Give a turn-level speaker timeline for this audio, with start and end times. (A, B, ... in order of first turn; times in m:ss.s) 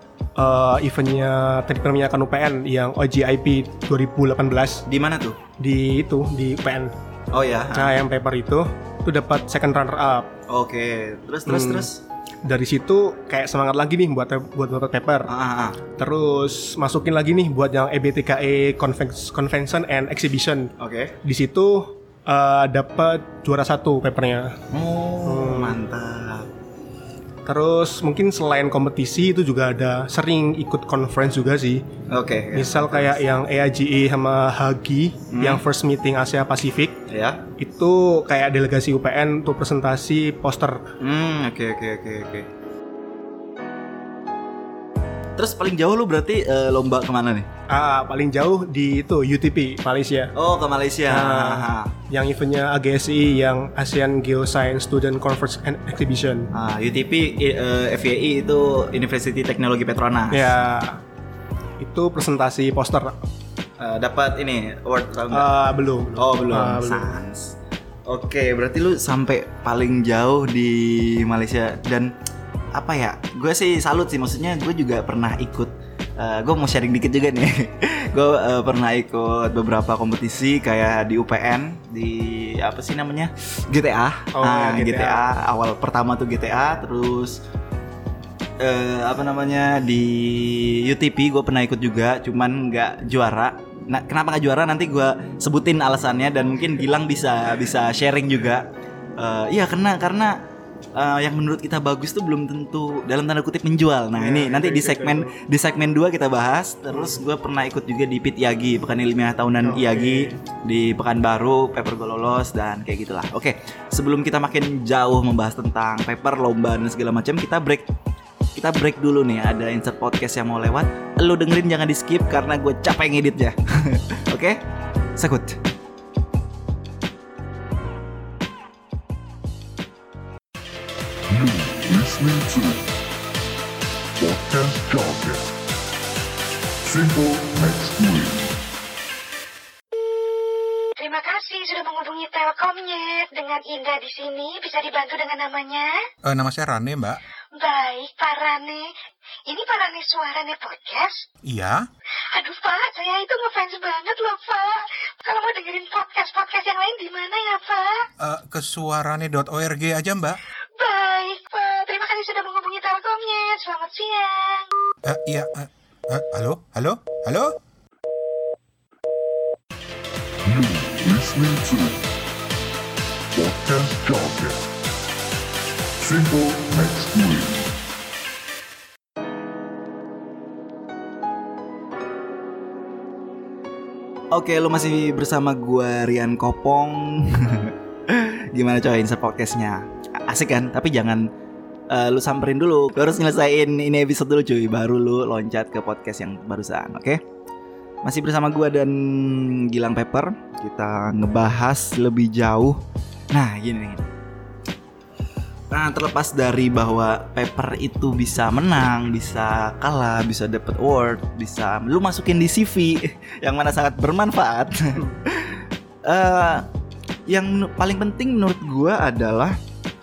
0:00.4-0:04.8 A
0:04.9-0:05.4 B
0:05.6-0:06.9 A
0:07.3-0:08.0 B
0:07.7-0:10.3 A
0:10.5-0:12.0 B
0:11.5-0:11.9 A
0:12.4-0:15.3 A
0:15.3-0:15.8 B
0:16.0-0:20.7 A
0:20.8-0:21.2 B
0:21.2-0:24.6 A
0:24.7-0:26.5 B
0:25.2-0:25.8 A
0:27.5-0:31.8 A
0:32.1-0:33.2 B
0:32.5-0:37.0 A
0:35.3-0:35.6 B
0:37.1-0:37.4 B
0:37.6-0:40.8 A
0:41.0-0:42.5 B
0:45.4-0:47.5 B
0:47.7-0:50.3 A
0:50.4-0:51.9 B
0:51.1-0:56.5 A
0:56.5-1:00.6 B
1:00.3-1:01.0 A
1:01.8-1:03.2 A
1:03.8-1:05.5 B
1:05.3-1:07.2 A
1:06.2-1:07.6 B
1:08.1-1:12.1 B
1:12.7-1:27.4 B
1:24.4-1:25.2 A
1:28.6-1:40.4 B
1:41.0-1:57.9 B
1:44.2-1:45.4 A
1:49.6-1:50.4 A
1:58.6-2:04.6 B
2:05.2-2:05.6 B
2:11.3-2:12.8 C
2:14.2-2:15.5 C
2:16.8-2:18.5 C
2:21.0-2:26.1 D
2:26.2-2:27.2 E
2:27.6-2:28.9 D
2:29.5-2:31.3 D
2:31.4-2:31.9 E
2:32.3-2:38.1 D
2:38.2-2:40.4 E
2:40.8-2:44.7 D
2:45.0-2:47.6 E
2:50.4-2:52.0 C
2:53.3-2:54.6 C
2:56.0-2:57.7 C
3:04.3-3:11.3 B
3:11.9-3:17.2 B
3:18.0-3:22.8 B
3:23.3-3:24.1 B
3:25.7-3:36.7 B
3:37.3-3:39.6 B